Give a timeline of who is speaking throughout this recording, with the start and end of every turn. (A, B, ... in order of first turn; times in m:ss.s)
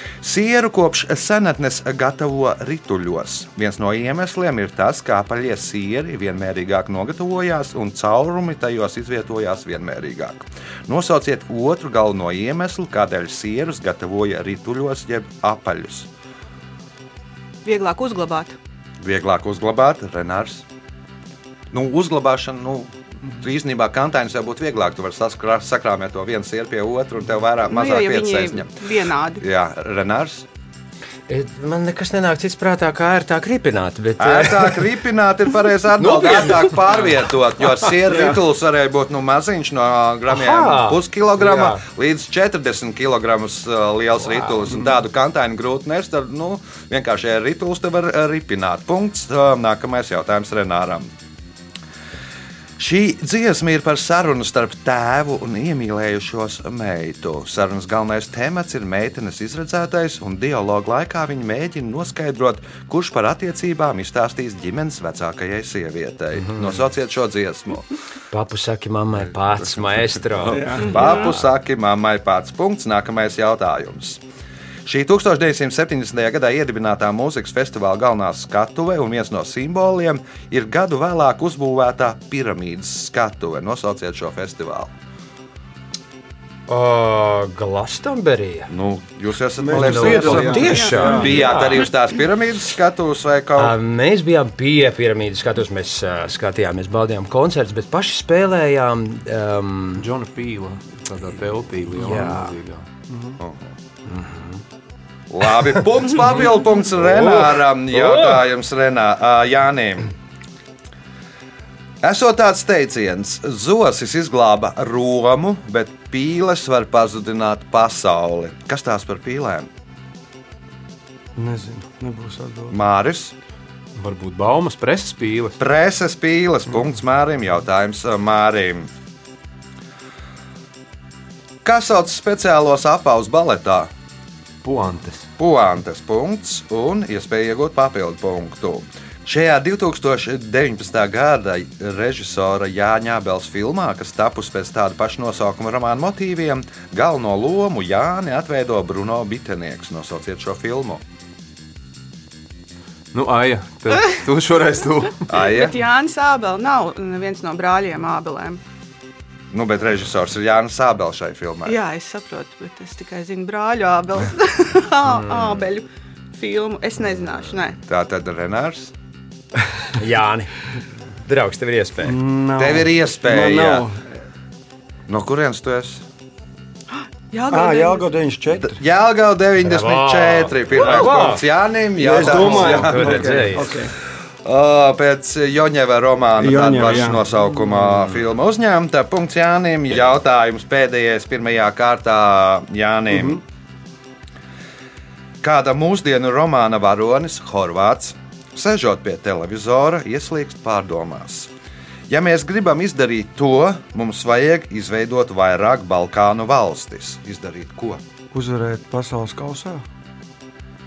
0:00.2-0:16.1 A
0:17.6-0:18.5 B
0:19.0-0:20.6 A
0:21.7-0:28.8 A
0:27.6-0:29.4 B
0:29.4-0:30.4 A
0:31.3-0:34.8 C
0:34.2-0:51.1 A
0:36.0-0:37.1 C
0:38.0-0:38.4 D
0:40.3-0:41.8 C
0:52.8-1:07.9 A
1:06.4-1:06.8 C
1:08.3-1:11.2 C
1:09.6-1:14.2 A
1:10.5-1:11.0 D
1:10.8-1:11.3 B
1:14.8-1:24.9 A
1:26.7-1:28.7 C
1:28.7-1:33.8 A
1:29.6-1:31.5 D
1:29.7-1:31.8 C
1:30.6-1:31.7 B
1:33.6-1:40.0 C
1:40.0-1:42.8 E
1:41.9-1:42.5 C
1:43.1-1:43.4 D
1:43.4-1:43.7 A
1:44.1-1:44.6 C
1:45.3-1:50.1 A
1:47.1-1:48.4 C
1:52.0-1:59.7 A
2:01.4-2:02.8 D
2:02.7-2:03.3 A
2:04.0-2:05.6 E
2:05.6-2:08.9 A
2:11.6-2:13.9 A
2:14.6-2:15.3 E
2:15.4-2:31.0 A
2:33.1-2:35.3 E
2:35.3-2:35.8 A
2:35.3-2:38.6 B
2:39.5-2:41.8 A
2:41.6-2:47.8 B
2:45.1-2:45.6 C
2:47.8-2:48.9 A
2:49.9-2:50.5 C
2:51.2-2:52.2 C
2:52.0-2:54.0 D
2:52.6-2:53.9 A
2:55.1-2:56.0 A
2:56.9-2:58.2 B
2:57.5-2:58.8 D
2:58.6-3:03.7 A
2:59.6-3:01.4 C
3:02.0-3:03.9 D
3:02.2-3:03.8 C
3:04.4-3:13.4 A
3:06.4-3:07.2 D
3:13.1-3:13.4 D
3:15.4-3:21.5 A
3:22.1-3:28.0 A
3:28.3-3:29.8 D